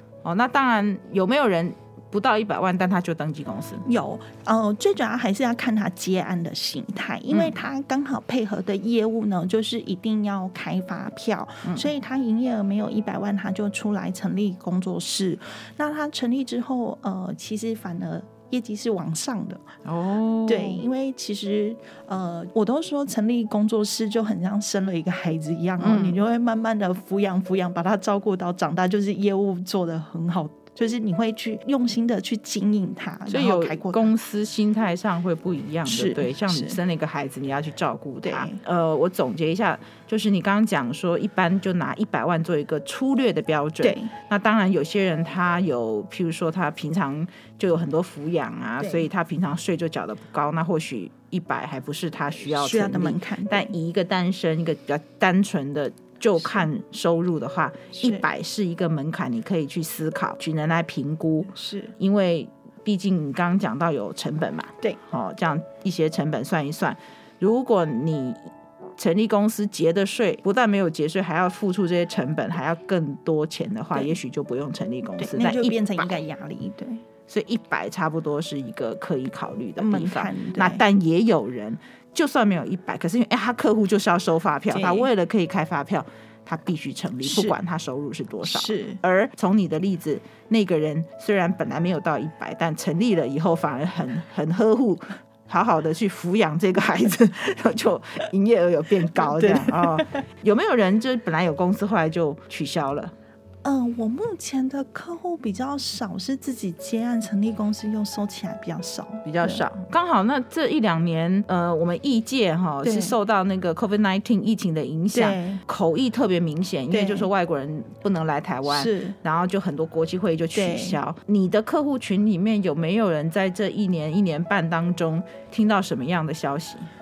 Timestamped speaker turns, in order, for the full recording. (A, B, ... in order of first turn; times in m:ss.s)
0:00.2-0:03.8 A
0:03.8-0:19.6 B
0:07.3-0:07.5 A
0:19.8-0:20.8 A
0:20.5-0:34.1 B
0:25.8-0:26.2 A
0:33.3-1:16.0 A
0:35.8-0:36.8 B
0:38.2-0:38.6 B
0:43.8-0:44.1 B
0:48.8-0:49.0 B
0:52.4-0:53.7 B
0:56.4-0:56.7 B
0:57.9-0:58.2 B
1:01.5-1:01.9 B
1:15.2-1:17.0 B
1:17.3-1:43.1 A
1:19.8-1:20.8 B
1:24.7-1:25.1 B
1:27.2-1:27.5 B
1:28.4-1:29.0 B
1:39.2-1:40.2 B
1:43.6-1:49.6 B
1:49.2-2:06.9 A
1:52.8-1:53.1 B
1:55.1-1:55.6 B
1:56.9-1:57.3 B
1:58.7-1:59.2 B
2:00.5-2:01.0 B